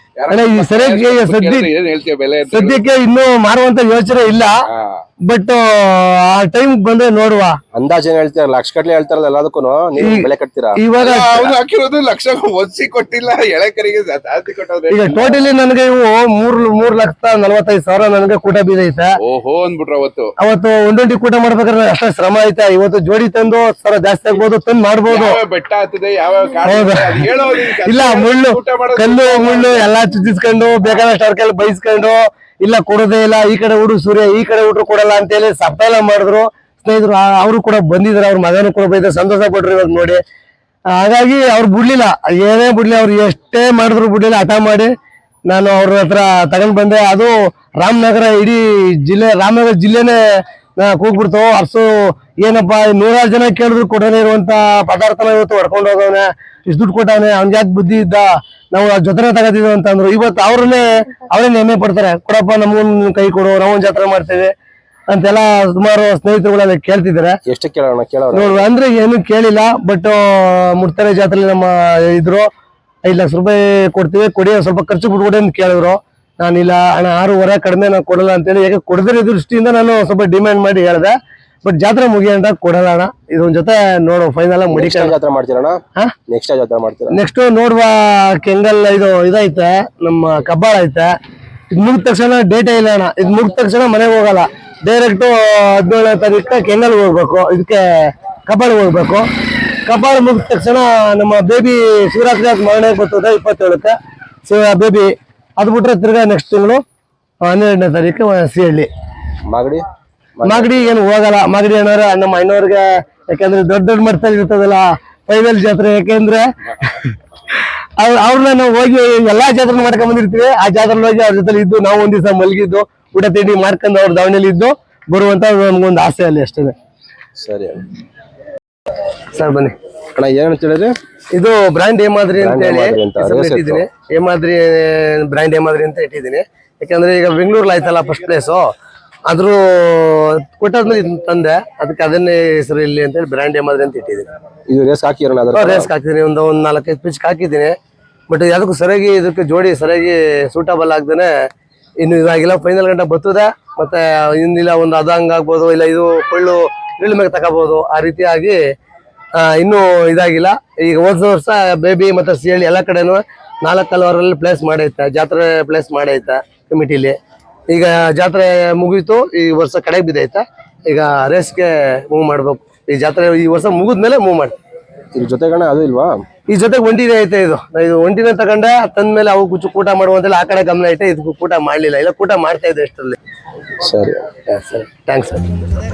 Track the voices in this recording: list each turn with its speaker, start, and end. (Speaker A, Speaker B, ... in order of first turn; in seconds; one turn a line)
Speaker A: 0.2-2.8
Speaker B: 0.3-1.7
Speaker B: 2.5-4.5
Speaker B: 5.2-7.6
Speaker C: 7.7-10.8
Speaker B: 10.0-11.5
Speaker A: 11.0-15.4
Speaker B: 14.9-19.1
Speaker A: 19.2-20.3
Speaker B: 20.4-25.4
Speaker A: 25.1-29.9
Speaker B: 26.7-27.3
Speaker B: 27.9-40.2
Speaker B: 40.9-44.9
Speaker B: 45.5-64.5
Speaker B: 65.1-67.4
Speaker C: 67.5-68.7
Speaker B: 68.3-72.5
Speaker B: 73.0-85.2
Speaker C: 84.7-87.2
Speaker B: 87.1-91.1
Speaker B: 91.7-99.3
Speaker B: 99.9-106.8
Speaker B: 107.4-108.9
Speaker C: 109.5-109.9
Speaker C: 110.4-110.8
Speaker B: 110.5-117.2
Speaker B: 118.0-126.8
Speaker C: 127.4-127.8
Speaker B: 129.3-129.8
Speaker C: 130.2-130.9
Speaker B: 131.3-138.7
Speaker C: 132.4-133.8
Speaker B: 139.3-144.3
Speaker C: 144.7-145.9
Speaker B: 145.5-147.8
Speaker B: 148.3-151.3
Speaker B: 152.0-158.7
Speaker B: 159.4-167.2
Speaker B: 167.7-174.6
Speaker C: 175.2-176.2
Speaker B: 176.5-183.2
Speaker C: 183.8-184.2
Speaker B: 184.5-185.7